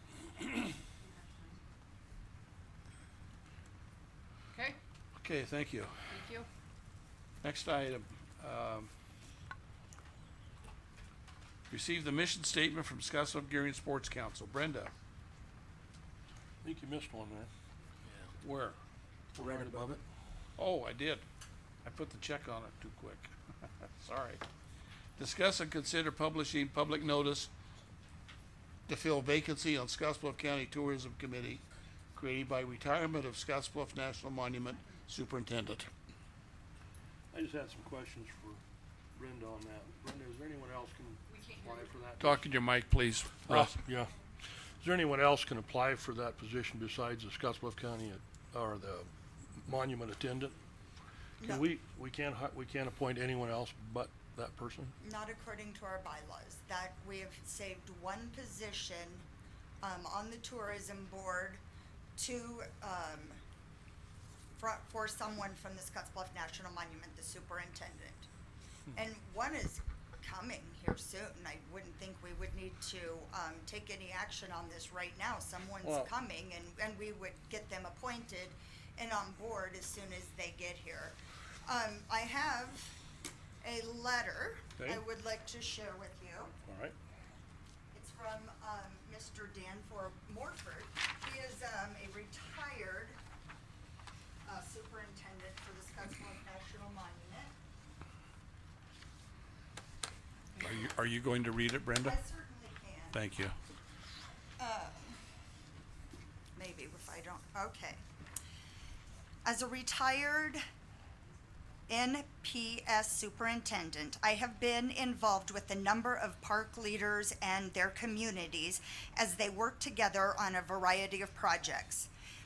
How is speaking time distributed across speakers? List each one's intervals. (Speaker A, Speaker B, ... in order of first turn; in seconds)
Speaker A: 1.1-1.6, 4.5-4.8, 6.1-6.5, 41.2-41.9
Speaker B: 5.2-6.1, 7.4-8.9, 11.7-14.9, 18.4-18.8, 19.4-19.9, 20.6-21.2, 21.8-24.4, 25.2-27.5, 28.9-31.6, 32.1-35.9, 42.2-43.8, 100.6-102.2, 103.1-103.5
Speaker C: 16.6-17.5, 19.3-20.0, 37.3-38.6, 39.1-42.5, 43.5-44.1, 44.8-50.6, 51.4-54.9, 75.8-76.1, 86.6-86.9
Speaker D: 51.4-51.6, 55.0-59.2, 59.8-61.6, 62.2-63.4, 64.5-68.3, 68.9-83.0, 83.6-86.5, 87.9-93.2, 94.5-97.5, 102.0-103.2, 104.6-105.2, 106.5-108.0, 109.4-110.6, 111.9-122.1